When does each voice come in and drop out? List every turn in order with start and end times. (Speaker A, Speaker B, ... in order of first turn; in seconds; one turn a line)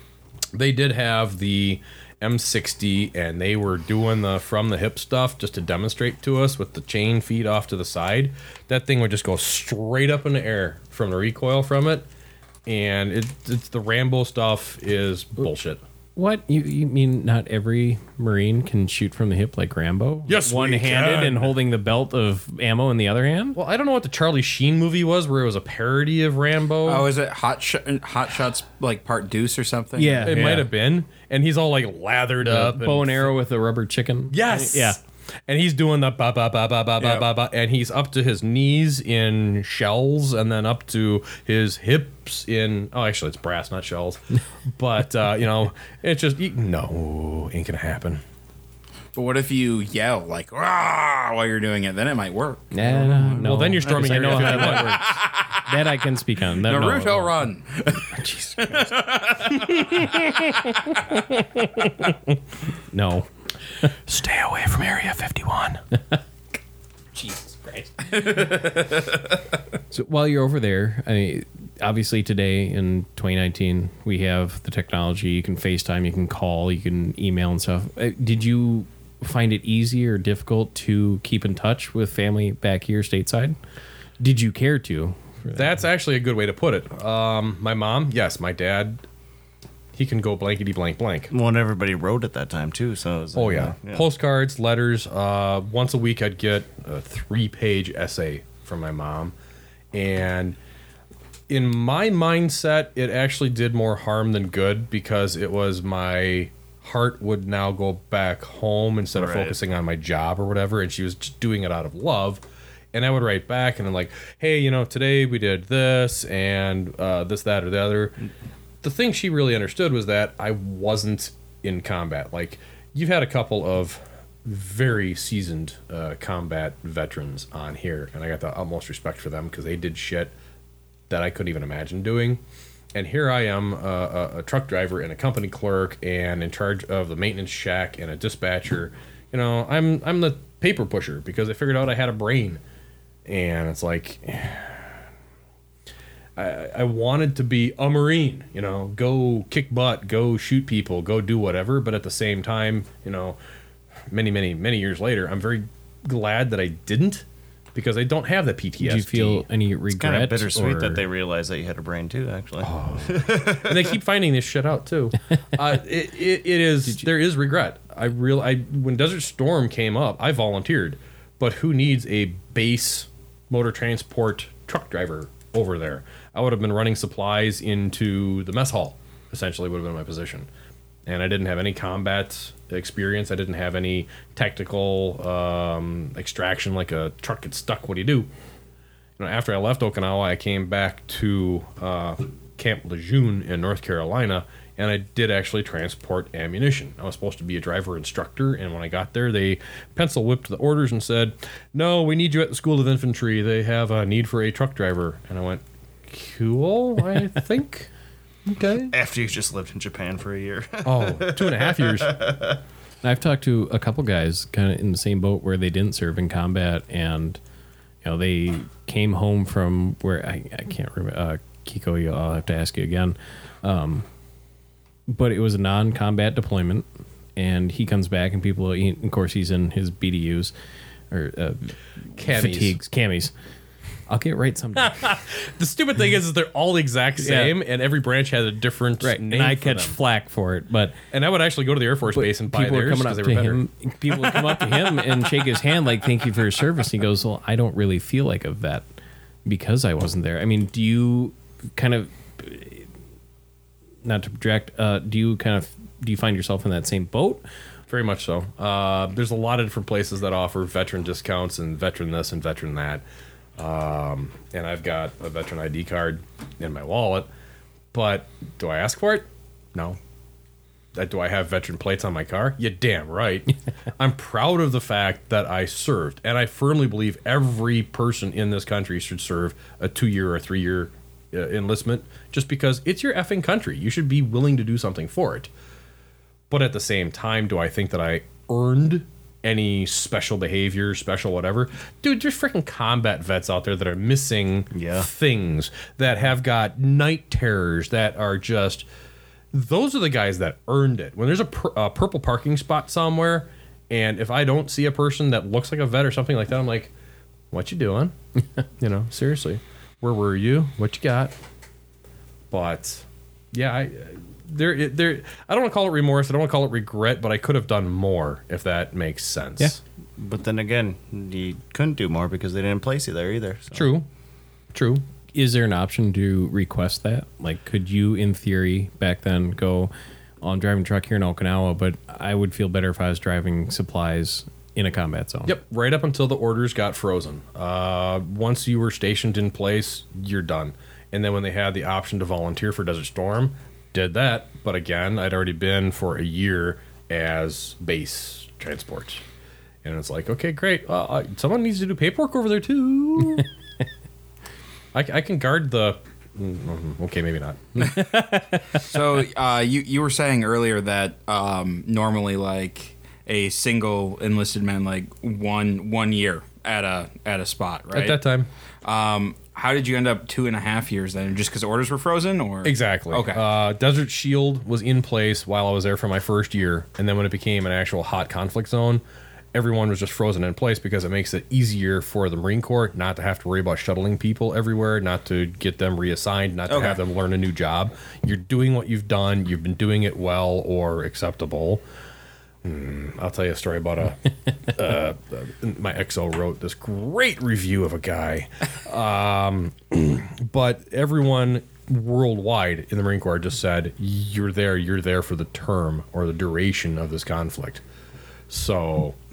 Speaker A: 0.5-12.1
Speaker A: 12.7-15.8
Speaker B: 16.1-23.6
Speaker A: 20.2-21.5
Speaker A: 23.5-27.1
Speaker C: 26.8-30.5
Speaker B: 30.0-30.7
Speaker A: 30.2-33.3
Speaker B: 32.4-35.0
Speaker A: 34.3-48.2
Speaker C: 37.0-37.2
Speaker C: 49.1-56.0
Speaker B: 52.7-58.9
Speaker A: 53.4-55.1
Speaker C: 56.6-59.9
Speaker A: 59.5-62.4
Speaker B: 62.9-63.3
Speaker A: 63.9-65.8
Speaker A: 67.1-67.9
Speaker C: 68.1-69.4
Speaker B: 69.9-83.6
Speaker B: 84.2-85.7
Speaker A: 85.5-89.0
Speaker A: 89.9-91.3
Speaker D: 91.3-94.0
Speaker A: 93.3-99.3
Speaker A: 99.9-100.6
Speaker A: 101.5-118.2
Speaker D: 109.2-109.5
Speaker A: 118.8-130.3
Speaker A: 131.1-132.4
Speaker A: 132.9-142.6
Speaker A: 143.2-145.0
Speaker A: 146.3-153.4
Speaker A: 154.1-159.4
Speaker B: 158.8-161.0
Speaker D: 159.9-163.9
Speaker A: 162.6-180.5
Speaker A: 181.1-188.3
Speaker A: 189.2-207.9
Speaker A: 208.4-208.9
Speaker D: 208.9-212.6
Speaker A: 210.8-212.2
Speaker B: 213.0-217.4
Speaker B: 218.0-224.1
Speaker B: 225.1-230.5
Speaker B: 231.1-233.3
Speaker A: 232.2-232.8
Speaker B: 234.1-235.0
Speaker A: 234.7-239.9
Speaker B: 237.2-237.6
Speaker B: 239.0-241.0
Speaker A: 241.1-245.2
Speaker B: 242.1-248.8
Speaker B: 249.4-252.9
Speaker B: 254.0-257.4
Speaker A: 257.9-263.0
Speaker A: 263.6-267.3
Speaker A: 267.9-270.0
Speaker A: 270.9-285.5
Speaker A: 286.5-298.9
Speaker D: 294.7-295.1
Speaker A: 299.5-306.9
Speaker A: 307.5-308.1
Speaker A: 308.8-311.3
Speaker A: 312.5-319.8
Speaker D: 320.2-323.9
Speaker A: 323.7-324.1
Speaker A: 324.7-325.0
Speaker B: 325.3-335.5
Speaker A: 335.4-349.2
Speaker A: 349.8-353.5
Speaker A: 354.9-358.0
Speaker B: 357.9-358.8
Speaker C: 358.8-368.2
Speaker A: 367.9-368.5
Speaker C: 368.8-373.4
Speaker A: 372.6-379.0
Speaker A: 379.5-391.8
Speaker C: 386.7-387.0
Speaker A: 392.6-407.8
Speaker A: 408.5-409.2